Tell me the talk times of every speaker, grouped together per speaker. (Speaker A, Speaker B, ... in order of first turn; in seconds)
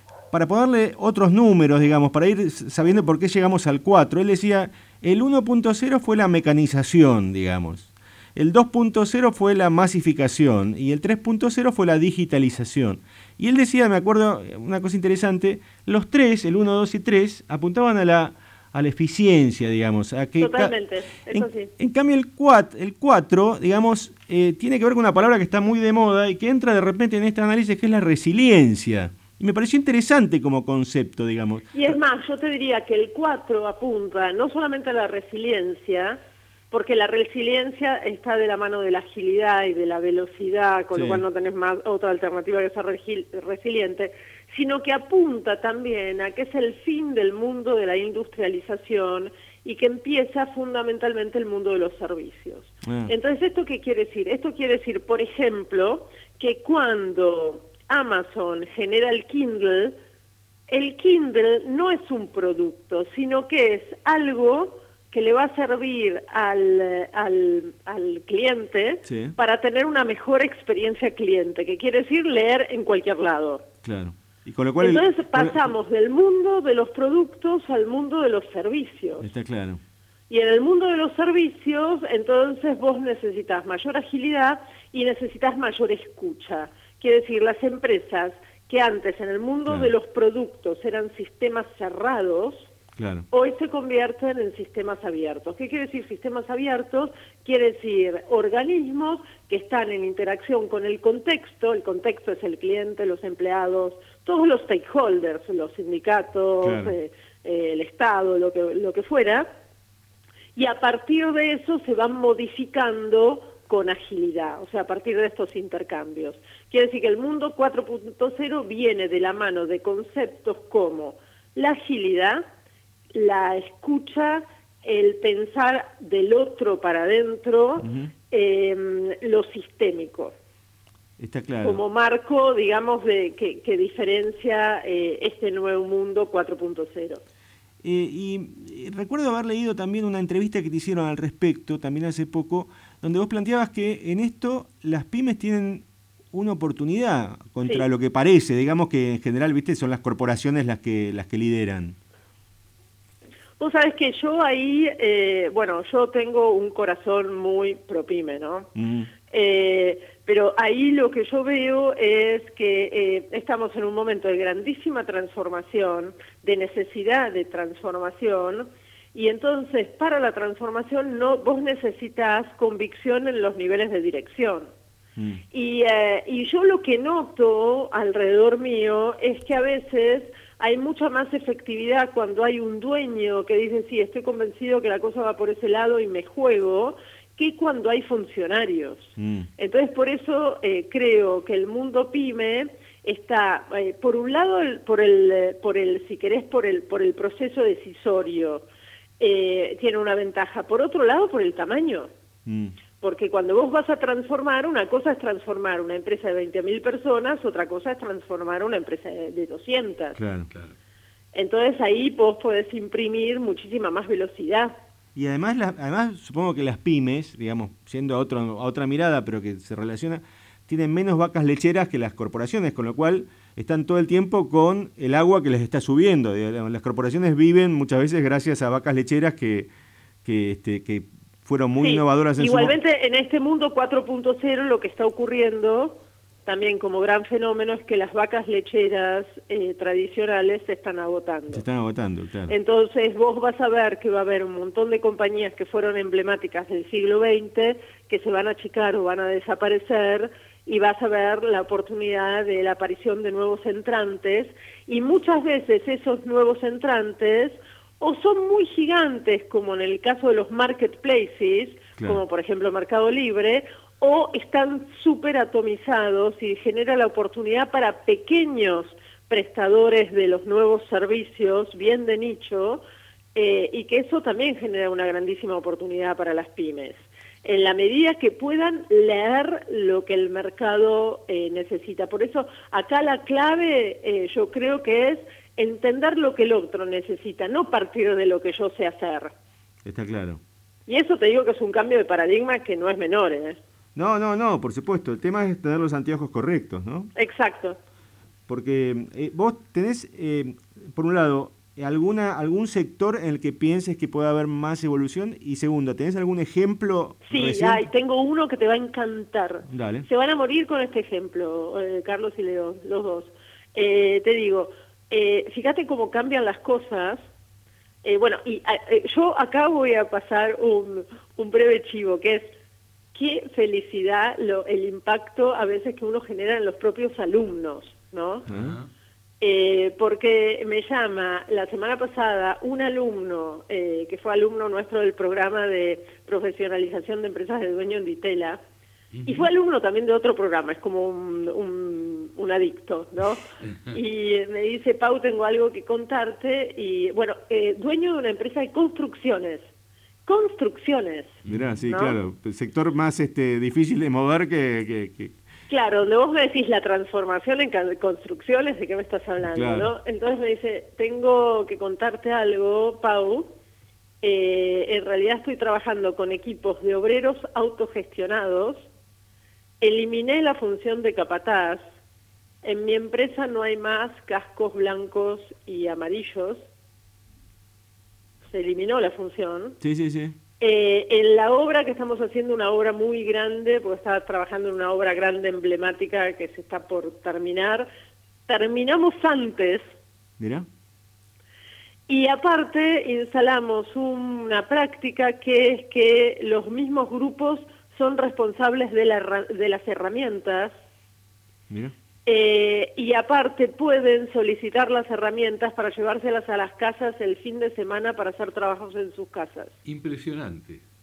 Speaker A: 0.3-20.7, 21.2-31.9, 40.9-41.2, 52.8-53.1, 69.0-69.3, 73.8-75.7, 79.2-79.8, 93.0-93.3, 106.6-106.9, 127.8-128.1, 131.2-131.8, 137.8-152.0, 158.7-159.1, 189.2-189.5, 202.4-202.7, 210.2-210.5, 215.1-229.7, 230.2-232.8, 241.5-242.5, 289.8-290.4, 293.9-297.1, 298.5-307.9, 309.7-310.1, 328.5-328.8, 351.4-355.3, 359.5-359.9, 379.8-380.4, 390.4-390.7
Speaker B: 20.4-21.7, 31.7-36.2, 36.7-60.0, 60.7-73.6, 74.8-79.3, 80.3-92.7, 93.3-109.5, 110.5-122.5, 123.1-130.3, 131.6-137.2, 153.6-158.7, 159.3-174.7, 175.5-198.7, 199.2-202.1, 203.0-210.2, 211.3-214.7, 231.8-241.6, 242.5-272.8, 273.3-289.3, 290.9-293.6, 297.1-297.8, 307.3-317.2, 318.0-322.5, 323.1-328.4, 329.4-338.6, 339.2-349.6, 350.3-352.2, 355.7-363.5, 364.2-368.9, 369.8-371.8, 372.6-376.6, 378.5-379.8, 380.6-387.9, 388.5-389.8, 392.1-400.7, 402.2-409.7
Speaker C: 328.5-328.9, 339.1-339.5, 351.4-351.8, 409.8-410.8